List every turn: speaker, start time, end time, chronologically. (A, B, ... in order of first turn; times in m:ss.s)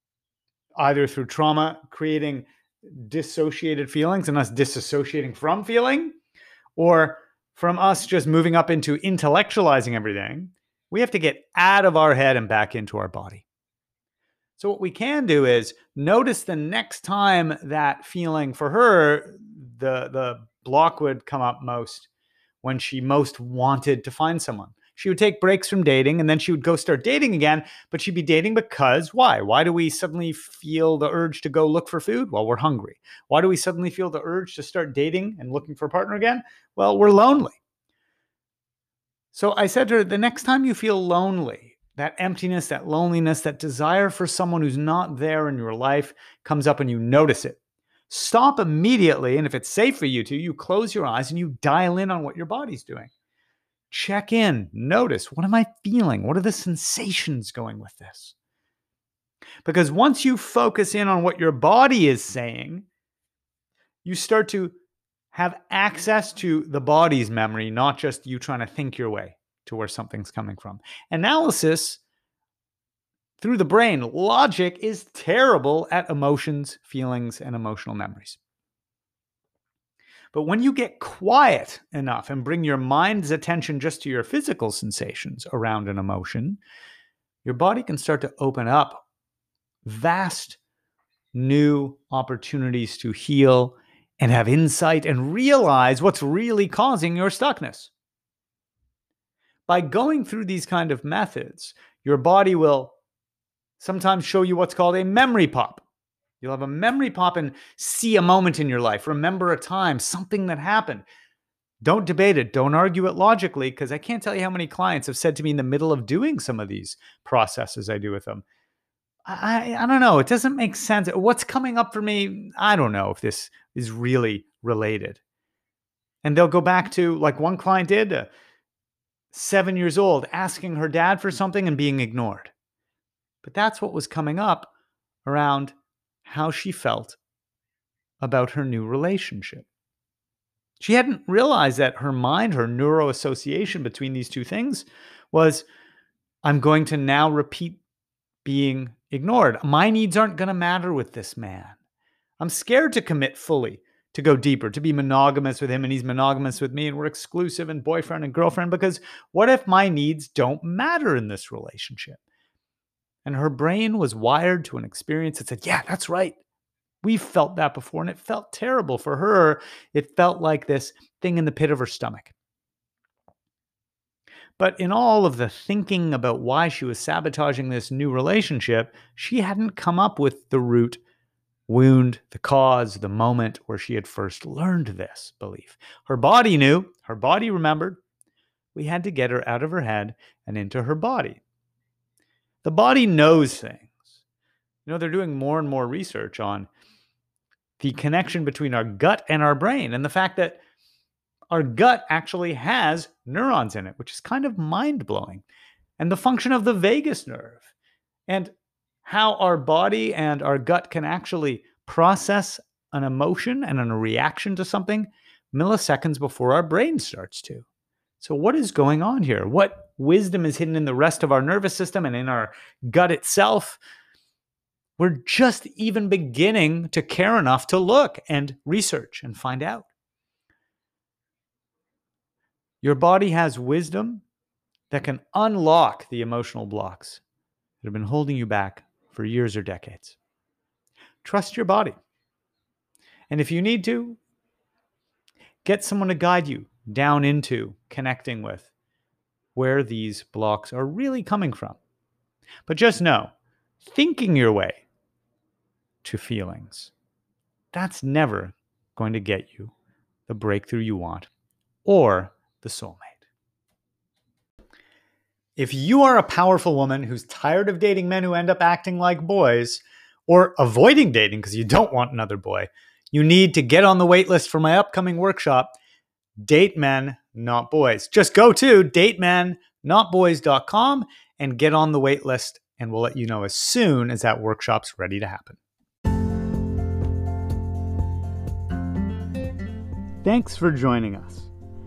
0:00.8-0:06.1 A
0:06.8-0:13.4 A
0:14.6-0:22.1 A
0:22.6-0:37.6 A
0:39.3-0:53.1 A
0:53.9-0:58.3 A
0:59.6-1:02.9 A
1:04.0-1:04.7 A
1:05.3-1:12.0 A
1:13.4-1:18.4 A
1:20.3-1:26.6 A
1:27.4-1:29.0 A
1:29.8-1:30.6 A
1:31.3-1:37.9 A
1:39.7-1:43.0 A
1:43.8-1:45.8 A
1:46.4-1:51.0 A
1:51.8-1:58.4 A
1:59.3-2:05.2 A
2:06.2-2:08.3 A
2:09.3-2:12.5 A
2:13.4-2:14.7 A
2:15.2-2:17.2 A
2:18.2-2:19.7 A
2:20.8-2:25.6 A
2:26.4-2:27.8 A
2:28.4-2:31.8 A
2:32.4-2:42.2 A
2:43.2-2:46.4 A
2:47.0-2:52.3 A
2:54.6-3:01.0 A
3:01.7-3:08.0 A
3:08.7-3:11.4 A
3:12.6-3:14.2 A
3:14.8-3:16.7 A
3:17.8-3:20.6 A
3:21.5-3:25.4 A
3:26.0-3:27.7 A
3:28.3-3:28.5 A
3:29.0-3:37.6 A
3:38.2-3:43.8 A
3:45.0-3:49.9 A
3:52.8-3:54.2 A
3:54.9-3:57.2 A
3:57.8-4:00.2 A
4:01.2-4:02.0 A
4:03.3-4:04.2 A
4:05.6-4:08.7 A
4:09.5-4:11.8 A
4:12.6-4:14.8 A
4:16.0-4:16.9 A
4:17.7-4:19.7 A
4:20.3-4:21.3 A
4:21.8-4:23.2 A
4:25.6-4:35.7 A
4:36.4-4:45.6 A
4:50.2-4:51.5 A